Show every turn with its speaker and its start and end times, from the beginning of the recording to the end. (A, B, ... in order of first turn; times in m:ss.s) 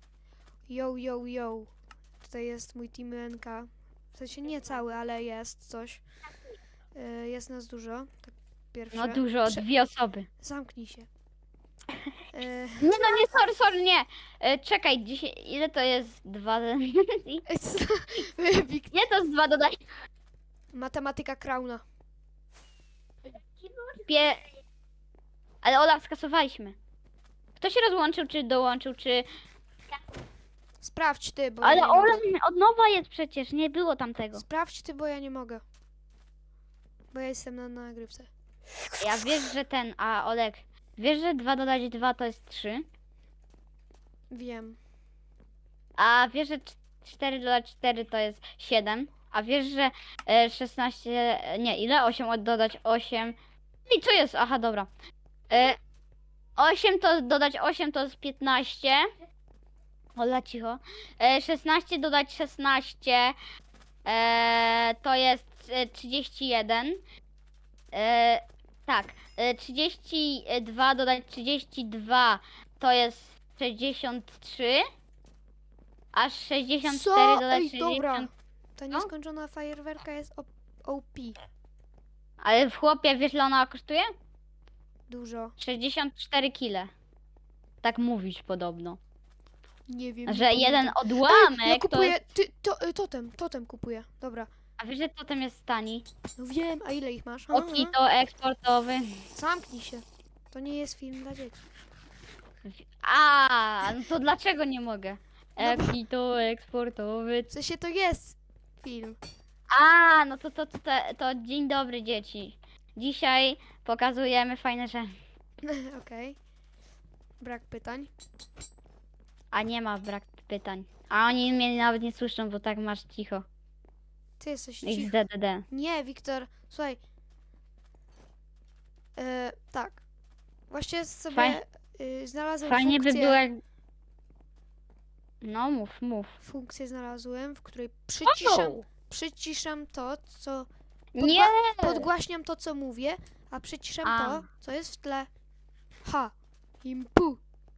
0:00.7-0:01.7 A
0:02.2-0:06.0 A
0:06.9-0:09.7 A
0:08.9-0:10.3 B
0:10.4-0:11.1 A
0:12.3-0:13.2 A
0:12.8-0:17.4 B
0:17.5-0:19.0 A
0:18.9-0:19.8 B
0:20.7-0:21.8 A
0:23.9-0:24.4 B
0:25.6-0:26.8 B
0:27.6-0:29.2 B
0:30.8-0:32.2 A
0:31.6-0:34.4 B
0:34.3-0:35.6 A
0:37.1-0:38.3 A
0:39.0-0:42.8 B
0:44.3-0:44.8 A
0:46.0-0:53.3 B
0:53.9-0:54.9 B
0:55.5-0:55.8 B
0:56.6-0:59.0 B
1:00.2-1:03.4 B
1:04.0-1:07.0 B
1:07.9-1:14.8 B
1:16.1-1:18.3 B
1:16.8-1:21.4 A
1:22.4-1:24.1 B
1:25.1-1:25.6 A
1:25.6-1:26.9 B
1:27.8-1:29.0 B
1:29.9-1:34.5 A
1:30.3-1:32.2 B
1:34.8-1:36.0 B
1:36.4-1:37.9 A
1:37.5-1:39.0 B
1:39.3-1:41.6 A
1:42.7-1:47.5 B
1:45.6-1:45.9 A
1:47.5-1:49.2 A
1:49.7-1:55.1 B
1:55.7-1:56.4 A
1:57.4-1:58.1 A
1:59.5-2:03.4 B
2:04.4-2:07.0 A
2:04.8-2:05.6 B
2:09.2-2:10.0 A
2:10.7-2:13.4 A
2:11.3-2:11.6 B
2:12.6-2:13.6 B
2:15.4-2:16.4 B
2:16.4-2:20.7 A
2:18.2-2:18.8 B
2:21.2-2:22.0 B
2:21.2-2:25.3 A
2:24.0-2:24.4 B
2:26.0-2:26.3 A
2:26.8-2:27.4 A